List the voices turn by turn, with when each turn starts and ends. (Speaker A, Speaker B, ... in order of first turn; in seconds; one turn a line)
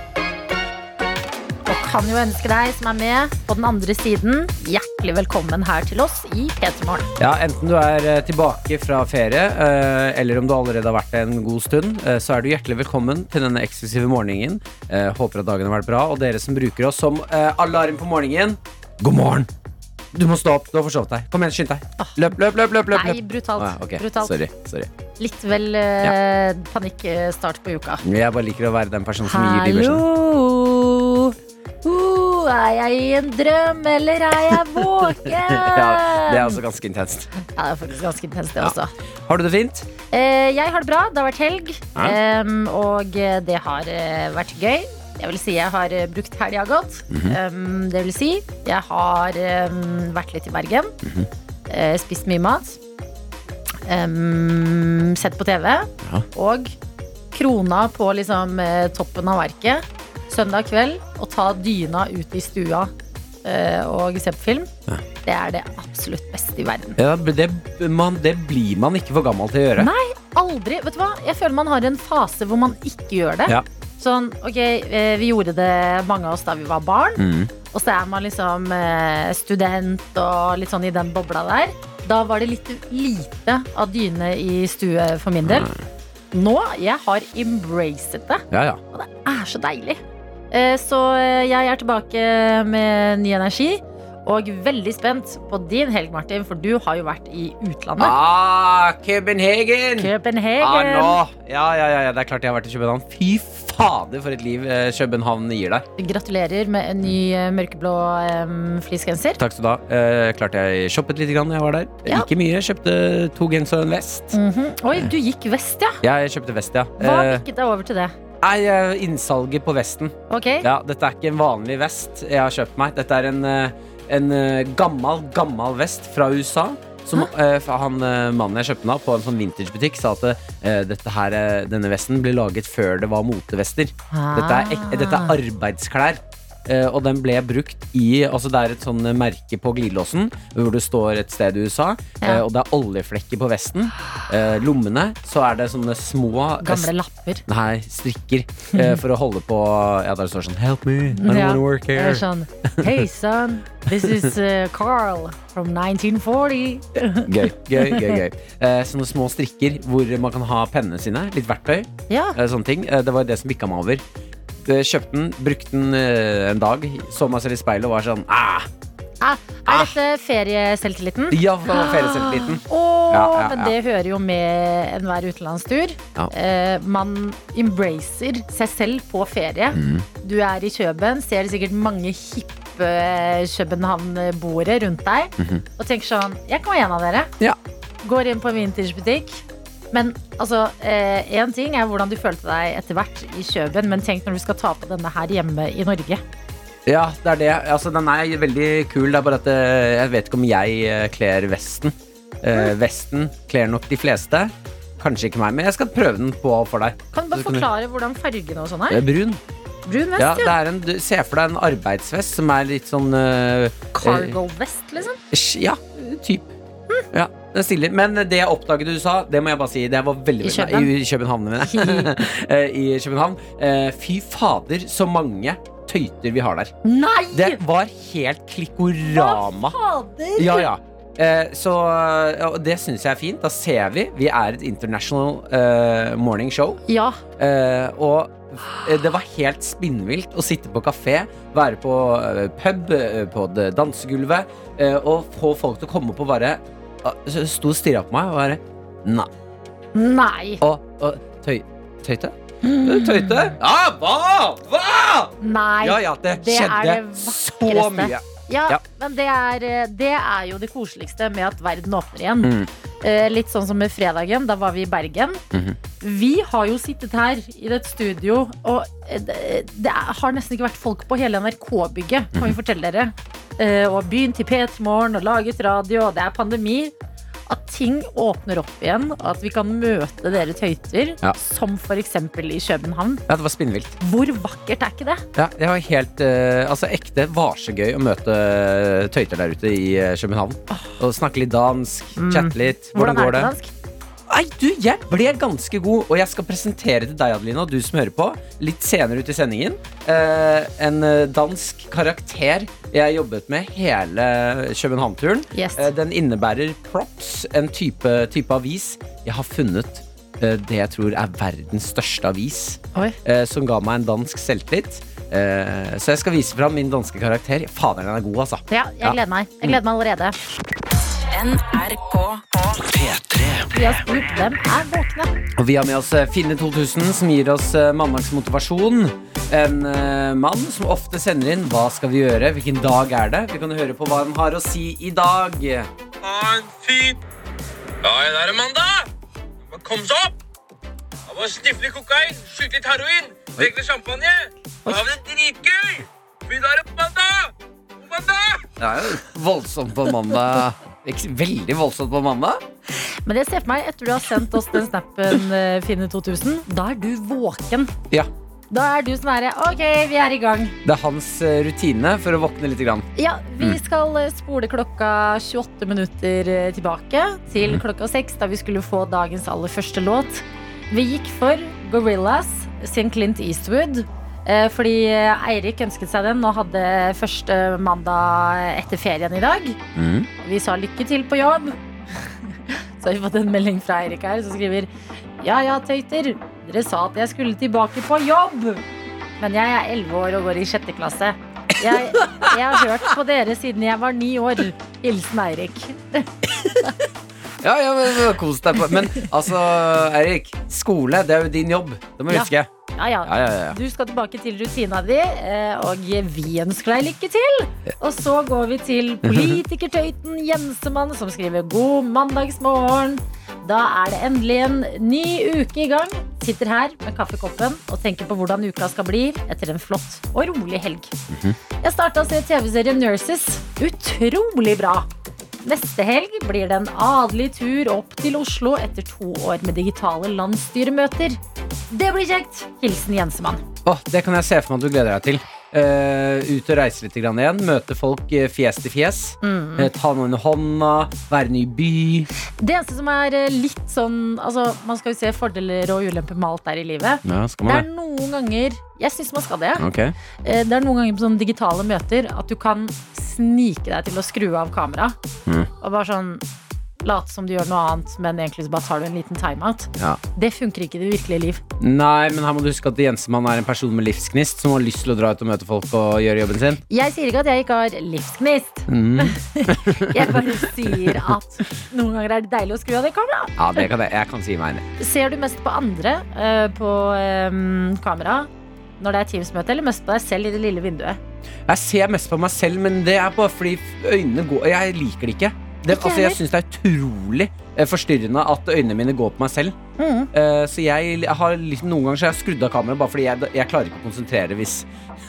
Speaker A: 1.6-7.1
Speaker B: 7.2-19.5
Speaker B: 20.1-24.9
Speaker A: 22.9-24.3
Speaker A: 25.2-28.0
Speaker B: 28.0-30.0
Speaker A: 29.2-36.6
Speaker B: 35.2-37.3
Speaker A: 37.4-38.9
Speaker B: 39.2-39.9
Speaker A: 40.1-50.9
Speaker B: 47.1-47.4
Speaker B: 51.0-51.3
Speaker A: 51.7-52.8
Speaker A: 53.9-56.7
Speaker A: 57.3-62.9
Speaker A: 63.4-64.7
Speaker A: 65.2-67.0
Speaker B: 67.0-69.9
Speaker A: 69.8-85.7
Speaker B: 77.2-77.5
Speaker B: 85.4-85.8
Speaker A: 86.3-90.0
Speaker B: 88.5-88.8
Speaker A: 90.5-98.2
Speaker B: 98.0-105.8
Speaker A: 100.0-101.2
Speaker A: 106.0-109.4
Speaker B: 109.4-114.3
Speaker A: 114.3-116.0
Speaker B: 116.0-117.4
Speaker A: 117.0-118.1
Speaker B: 118.4-146.9
Speaker A: 120.3-120.7
Speaker A: 134.1-135.3
Speaker A: 146.6-147.4
Speaker B: 147.5-152.9
Speaker A: 148.7-149.0
Speaker A: 151.2-158.2
Speaker B: 154.0-154.3
Speaker B: 157.2-164.0
Speaker A: 162.1-162.4
Speaker B: 164.6-168.7
Speaker A: 169.2-187.3
Speaker B: 169.7-169.9
Speaker B: 171.3-173.7
Speaker B: 179.7-180.1
Speaker B: 185.4-185.6
Speaker A: 188.0-196.2
Speaker B: 196.8-207.7
Speaker A: 207.1-209.0
Speaker B: 208.9-209.4
Speaker A: 209.8-210.5
Speaker B: 210.2-214.3
Speaker A: 213.9-215.2
Speaker B: 215.3-216.5
Speaker B: 217.1-226.7
Speaker A: 220.4-220.9
Speaker A: 221.6-222.1
Speaker A: 226.8-227.6
Speaker B: 227.3-229.8
Speaker A: 229.1-230.7
Speaker B: 230.4-236.8
Speaker A: 236.9-237.2
Speaker B: 237.4-249.3
Speaker A: 249.9-250.6
Speaker B: 250.6-258.8
Speaker A: 252.6-253.5
Speaker A: 255.4-265.4
Speaker B: 262.4-262.7
Speaker B: 265.5-265.8
Speaker A: 266.0-276.9
Speaker A: 277.5-283.2
Speaker B: 283.3-283.9
Speaker A: 284.0-285.2
Speaker B: 285.3-293.5
Speaker A: 292.2-293.7
Speaker B: 294.3-319.7
Speaker A: 305.5-305.9
Speaker A: 318.7-320.4
Speaker C: 321.3-324.0
Speaker A: 323.7-325.3
Speaker B: 325.6-335.9
Speaker D: 336.2-337.2
Speaker D: 338.0-339.1
Speaker D: 339.7-340.3
Speaker D: 341.3-348.6
Speaker B: 348.8-352.6
Speaker A: 352.9-357.9
Speaker A: 358.7-360.8
Speaker B: 360.8-363.1
Speaker A: 363.1-379.8
Speaker B: 379.9-380.3
Speaker A: 380.4-388.9
Speaker A: 389.4-396.3
Speaker B: 391.9-392.8
Speaker B: 397.6-402.7
Speaker A: 398.9-399.2
Speaker A: 402.3-421.1
Speaker B: 403.2-403.8
Speaker B: 409.2-409.6
Speaker B: 421.3-421.6
Speaker A: 421.8-425.1
Speaker A: 425.6-433.6
Speaker B: 433.8-442.3
Speaker A: 439.4-439.9
Speaker A: 442.6-449.8
Speaker B: 447.2-447.9
Speaker B: 449.8-450.1
Speaker A: 450.4-455.2
Speaker A: 455.8-456.4
Speaker A: 457.0-461.6
Speaker B: 461.8-466.8
Speaker A: 466.9-473.8
Speaker B: 468.9-471.3
Speaker B: 473.6-474.8
Speaker A: 475.0-478.5
Speaker A: 479.0-481.2
Speaker B: 481.7-489.8
Speaker A: 485.9-486.4
Speaker A: 490.0-490.3
Speaker B: 490.3-494.9